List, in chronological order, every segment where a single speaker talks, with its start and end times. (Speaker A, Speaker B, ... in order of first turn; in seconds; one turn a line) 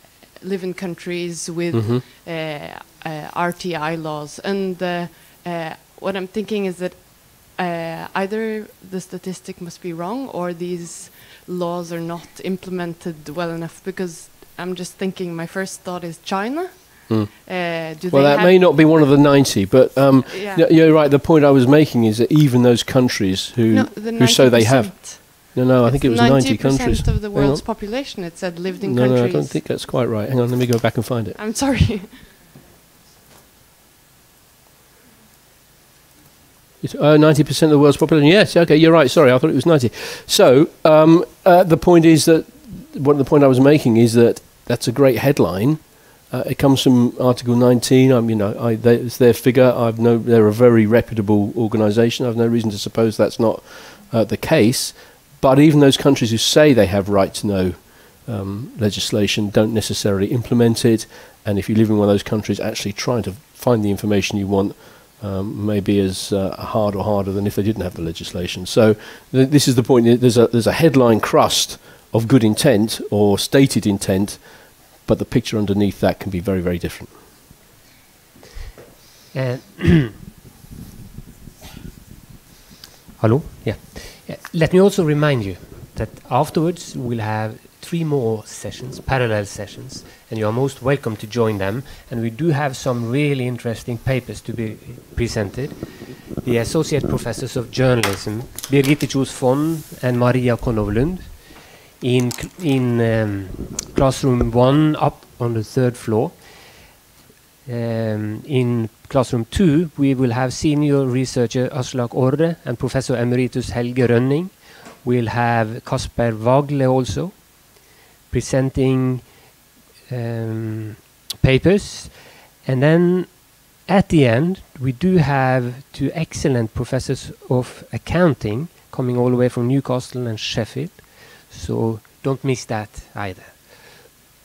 Speaker A: 0.4-18.7
Speaker B: 1.7-2.0
Speaker B: 17.1-27.6
Speaker A: 20.3-20.7
Speaker A: 23.7-29.6
Speaker B: 28.8-31.4
Speaker A: 31.4-32.3
Speaker B: 36.8-45.8
Speaker B: 46.3-74.4
Speaker B: 75.0-77.1
Speaker C: 79.3-80.2
Speaker C: 83.2-95.8
Speaker C: 96.4-101.3
Speaker C: 102.0-106.4
Speaker C: 107.7-117.6
Speaker C: 118.3-119.3
Speaker C: 120.1-133.9